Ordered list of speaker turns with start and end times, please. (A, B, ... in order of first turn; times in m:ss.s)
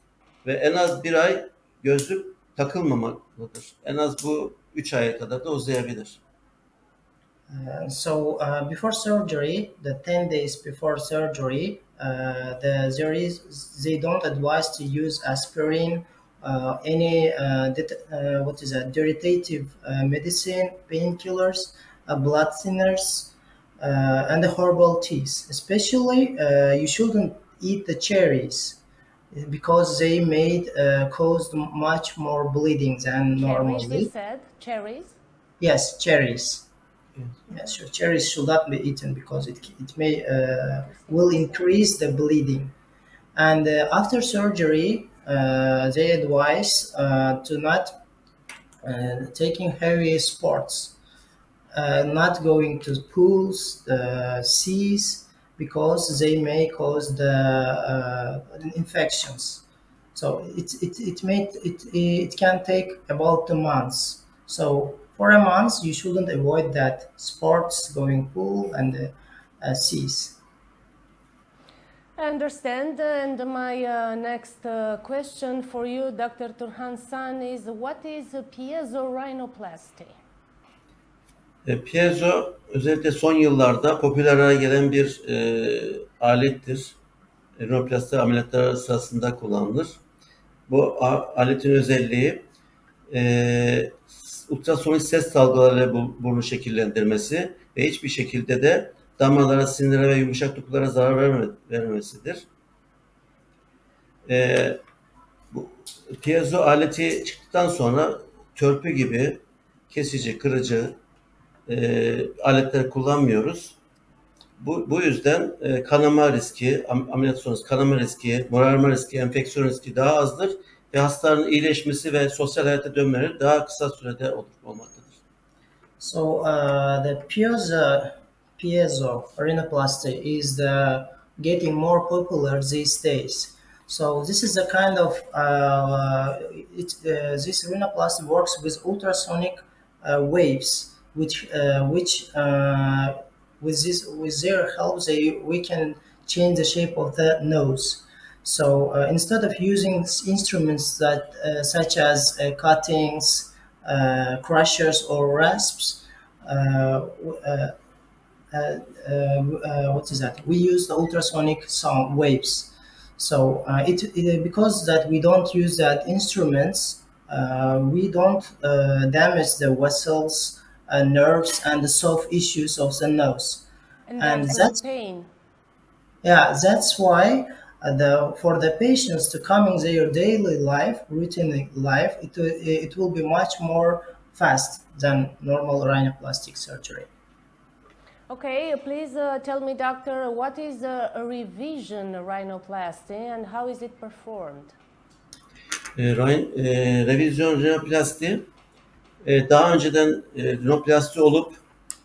0:00.4-0:06.2 A
0:07.5-0:34.1 B
0:33.4-0:35.2 C
0:35.6-0:36.7 B
0:37.5-0:42.7 B
0:40.8-0:41.7 C
0:43.4-0:48.0 B
0:48.8-0:51.0 B
0:51.7-1:10.4 B
1:12.2-1:20.2 C
1:21.7-1:27.0 A
1:27.6-1:30.0 A
1:30.7-1:32.5 A
1:33.1-1:42.5 A
1:44.3-1:44.8 A
1:45.5-1:51.0 A
1:51.7-1:53.8 A
1:54.6-2:05.2 A
2:06.0-2:37.7 B
2:38.5-2:53.7 B
2:54.1-2:55.3 C
2:54.2-2:54.8 B
2:56.2-3:07.1 B
3:08.3-3:14.8 C
3:16.0-3:18.5 A
3:19.2-3:21.6 A